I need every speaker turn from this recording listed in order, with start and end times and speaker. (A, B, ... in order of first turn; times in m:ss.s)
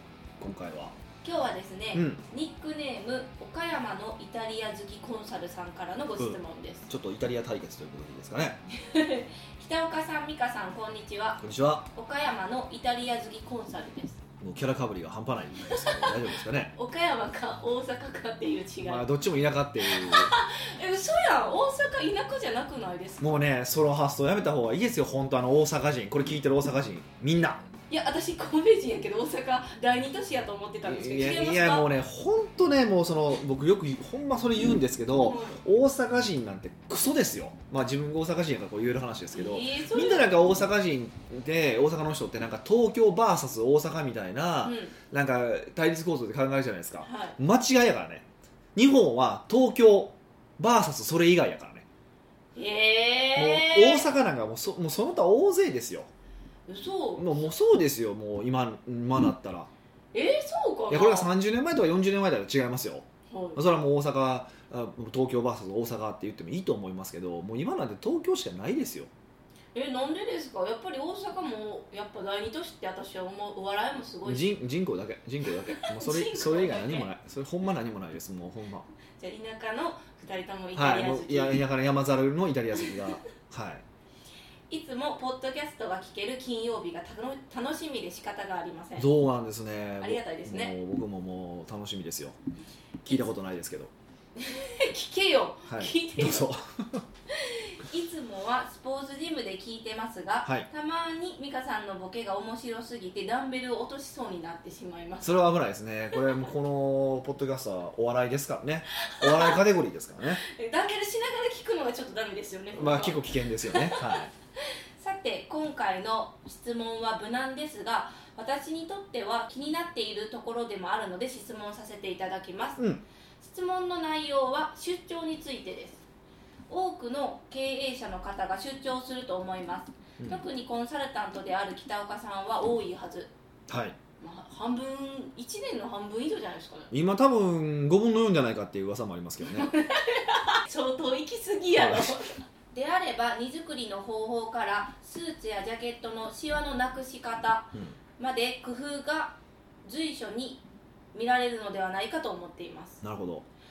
0:00.4-0:00.9 A
0:01.2-0:06.9 B
0:01.9-0:02.2 A
0:06.2-0:08.6 A
0:08.7-0:11.4 B
0:11.4-0:11.9 A
0:11.9-0:14.2 B
0:14.4-0:16.8 A
0:15.7-0:19.1 B
0:18.8-0:20.3 A
0:19.8-0:23.4 B
0:23.2-0:27.6 A
0:27.9-0:31.9 B
0:30.8-0:51.9 A
0:35.2-0:35.6 B
0:39.3-0:40.4 B
0:44.6-0:44.9 B
0:47.0-0:47.4 B
0:52.6-0:54.1 B
0:53.4-0:56.1 A
0:56.7-0:57.3 B
0:57.2-0:59.7 A
1:00.1-1:01.3 B
1:00.9-1:09.1 A
1:03.3-1:03.6 B
1:09.7-1:14.5 B
1:14.2-1:18.9 A
1:15.5-1:17.1 B
1:19.2-1:21.6 B
1:20.8-1:23.8 A
1:22.8-1:23.1 B
1:24.7-1:29.1 B
1:29.0-1:32.4 A
1:30.0-1:30.8 B
1:33.0-1:33.9 A
1:34.4-1:36.5 B
1:35.7-1:37.0 A
1:37.3-1:45.4 B
1:45.2-1:50.4 A
1:49.1-1:49.6 B
1:50.4-2:02.8 B
1:52.7-1:54.3 A
2:02.8-2:03.0 A
2:03.4-2:06.0 B
2:06.7-2:13.3 B
2:10.2-2:10.4 A
2:13.7-2:14.0 A
2:14.2-2:16.9 B
2:16.9-2:19.7 A
2:19.4-2:30.6 B
2:21.8-2:22.2 A
2:31.1-2:33.0 B
2:33.0-2:33.4 A